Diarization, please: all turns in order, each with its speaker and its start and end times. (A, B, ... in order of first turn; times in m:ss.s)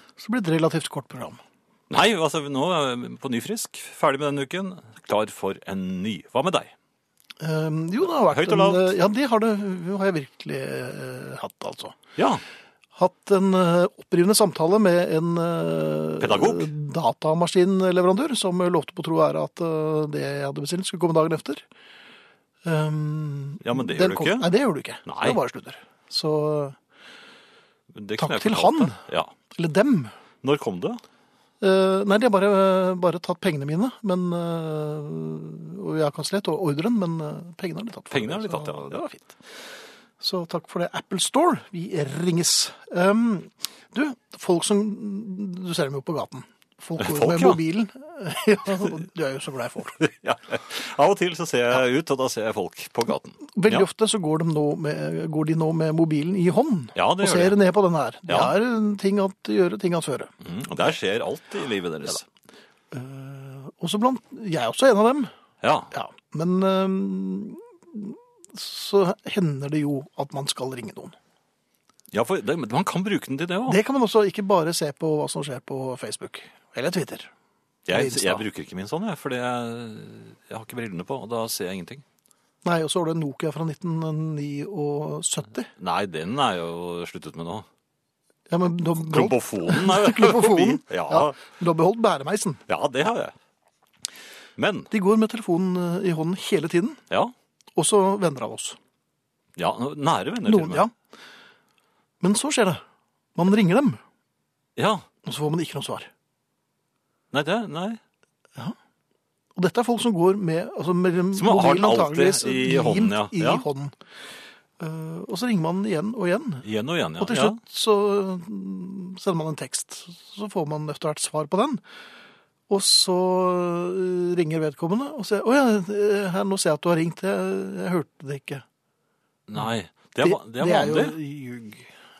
0:00.2-0:01.4 A
0:01.9-0:06.7 B
0:07.4-0:12.0 A
0:08.1-0:08.9 B
0:12.2-0:12.4 B
0:13.0-0:21.6 A
0:16.2-0:16.7 B
0:22.6-0:26.8 A
0:23.6-0:24.5 B
0:25.1-0:25.4 B
0:27.9-0:29.3 B
0:28.2-0:29.0 A
0:29.6-0:30.1 A
0:30.4-0:31.0 B
0:31.6-0:39.3 A
0:38.1-0:39.0 B
0:40.2-0:50.0 A
0:47.0-0:47.6 B
0:50.0-0:53.8 B
0:53.6-1:00.3 A
0:57.0-0:57.6 B
0:58.3-0:58.5 B
1:00.4-1:02.2 B
1:02.9-1:05.3 A
1:05.6-1:05.9 B
1:05.9-1:11.2 A
1:12.1-1:13.8 B
1:13.7-1:17.3 A
1:17.9-1:22.0 B
1:17.9-1:18.4 A
1:22.6-1:25.7 A
1:25.8-1:27.7 B
1:28.5-1:32.6 A
1:29.1-1:31.4 B
1:32.7-1:33.3 B
1:34.6-1:34.9 B
1:34.9-1:37.0 A
1:37.8-1:38.8 A
1:39.6-1:40.8 B
1:40.5-1:40.9 A
1:42.2-1:42.8 A
1:43.4-1:44.0 A
1:44.8-1:45.0 B
1:45.2-1:46.1 A
1:47.3-1:48.0 B
1:49.6-1:53.9 A
1:51.3-1:53.6 B
1:54.8-1:56.6 A
1:56.6-1:57.6 B
1:57.2-2:01.8 A
2:02.7-2:08.6 A
2:09.5-2:11.2 B
2:10.2-2:11.9 A